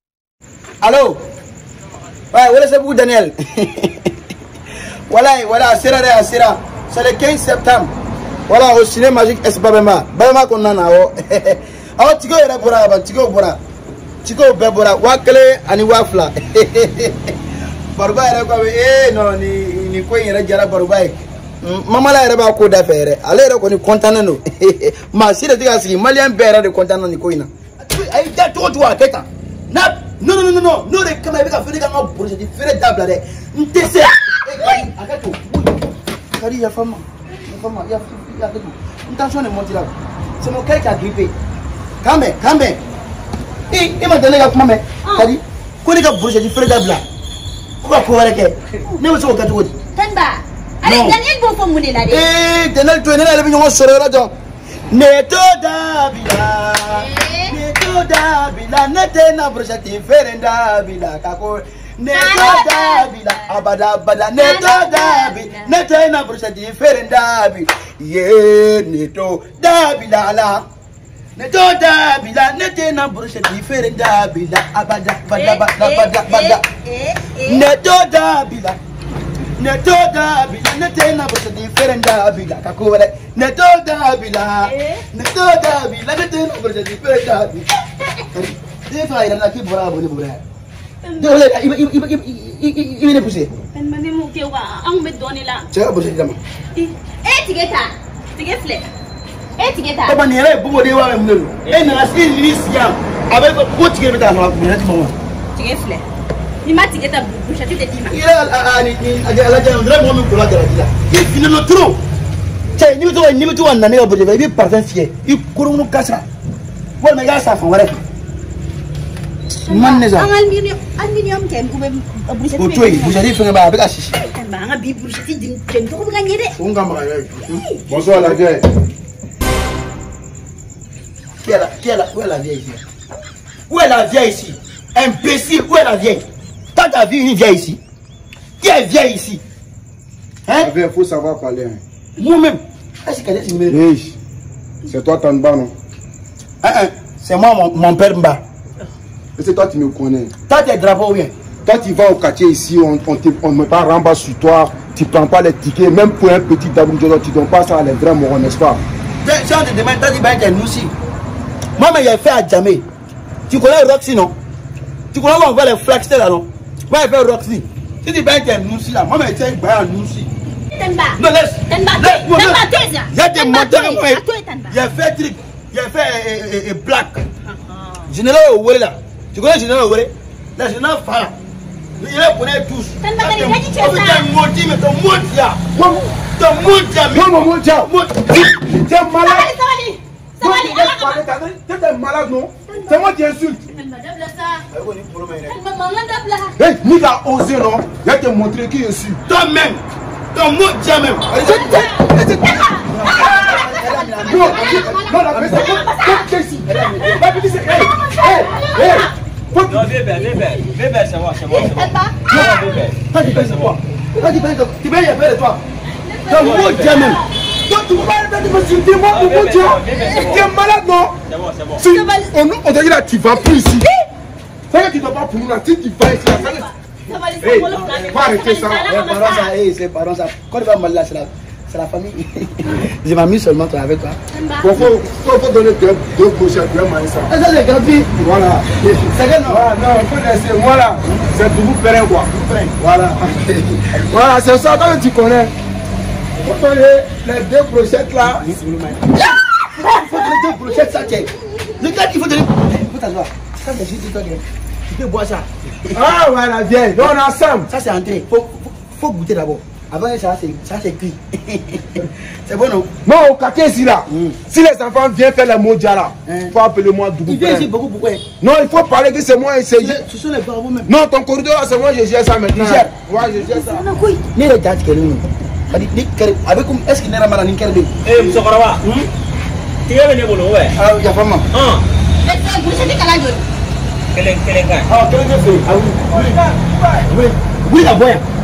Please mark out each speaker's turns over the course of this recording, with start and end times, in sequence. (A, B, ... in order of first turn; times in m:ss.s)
0:00.8-0:01.2 A
0:02.3-0:04.1 A
0:05.1-0:07.9 A
0:08.5-0:13.6 A
0:14.2-0:17.3 A
0:17.9-0:41.3 A
0:42.0-0:42.8 A
0:43.7-0:47.0 A
0:45.0-0:45.3 B
0:47.8-0:49.8 A
0:50.0-0:52.3 B
0:50.8-0:51.2 A
0:52.1-0:54.3 A
0:54.9-1:10.6 A
0:56.9-0:57.6 B
1:02.1-1:03.1 B
1:04.4-1:05.7 B
1:11.4-1:16.6 A
1:15.3-1:17.7 B
1:17.4-1:18.8 A
1:19.6-1:27.7 A
1:24.6-1:25.0 B
1:28.2-1:30.4 A
1:31.0-1:31.5 B
1:31.2-1:33.5 A
1:33.7-1:35.7 B
1:35.7-1:36.4 A
1:36.8-1:38.9 B
1:39.6-1:40.2 B
1:40.0-1:45.2 A
1:45.6-1:46.0 B
1:46.6-1:48.2 B
1:48.1-1:52.0 A
1:52.8-1:56.3 A
1:57.0-1:58.0 A
1:59.7-2:03.2 B
1:59.7-2:00.3 A
2:02.6-2:04.2 A
2:04.2-2:06.5 B
2:06.6-2:08.4 A
2:07.5-2:07.8 B
2:07.9-2:08.6 C
2:11.4-2:12.8 A
2:13.7-2:16.2 A
2:16.8-2:17.8 A
2:18.6-2:19.4 A
2:20.5-2:20.7 A
2:20.6-2:21.8 C
2:22.2-2:23.8 A
2:23.7-2:24.2 C
2:24.9-2:25.7 C
2:26.6-2:28.4 A
2:29.4-2:30.3 C
2:30.5-2:31.3 A
2:31.6-2:38.8 C
2:39.2-2:40.9 A
2:41.8-2:42.8 A
2:43.5-2:44.3 A
2:45.1-2:50.3 A
2:50.7-2:54.8 B
2:51.2-2:57.2 A
2:57.5-2:58.1 B
2:58.1-3:01.3 A
3:02.0-3:05.6 A
3:03.0-3:04.3 B
3:05.7-3:06.1 C
3:06.4-3:08.6 A
3:07.1-3:07.9 C
3:08.5-3:09.5 C
3:09.2-3:11.3 B
3:10.4-3:13.6 C
3:12.7-3:13.1 B
3:13.7-3:14.6 B
3:14.7-3:15.6 A
3:15.5-3:16.6 B
3:16.6-3:19.2 C
3:19.3-3:19.8 A
3:20.3-3:21.8 A
3:21.4-3:23.6 C
3:21.4-3:29.1 B
3:22.9-3:25.8 A
3:24.2-3:29.9 C
3:26.6-3:27.1 A
3:29.7-3:33.8 D
3:30.2-3:30.7 B
3:31.5-3:32.2 B
3:32.3-3:35.6 A
3:36.0-3:37.3 B
3:36.3-3:37.2 A
3:36.4-3:37.1 D
3:37.7-3:41.2 C
3:39.1-3:40.5 D
3:39.9-3:40.4 B
3:41.3-3:41.8 D
3:41.8-3:43.9 C
3:41.8-3:42.3 B
3:44.7-3:46.7 C
3:46.2-3:49.6 B
3:47.4-3:49.0 C
3:47.8-3:48.1 A
3:48.9-3:54.2 A
3:54.3-3:54.8 B
3:54.6-3:57.3 C
3:57.3-3:58.1 A
3:58.2-4:03.4 C
3:59.1-3:59.7 A
4:02.3-4:04.1 A
4:04.0-4:05.5 C
4:06.4-4:08.4 C
4:08.2-4:16.0 A
4:15.9-4:17.7 C
4:17.7-4:22.9 A
4:23.0-4:27.7 C
4:24.1-4:24.4 A
4:26.3-4:26.6 A
4:27.3-4:28.2 A
4:28.4-4:30.0 C
4:29.8-4:30.9 A
4:30.9-4:33.9 C
4:32.5-4:32.9 A
4:33.3-4:34.2 B
4:34.3-4:37.9 A
4:38.0-4:38.8 D
4:38.8-4:39.1 A
4:39.9-4:40.8 D
4:40.7-4:41.5 A
4:41.5-4:41.8 D
4:42.2-4:43.4 B
4:44.1-4:44.9 D
4:44.9-4:46.4 A
4:45.0-4:47.1 C
4:47.1-4:48.2 A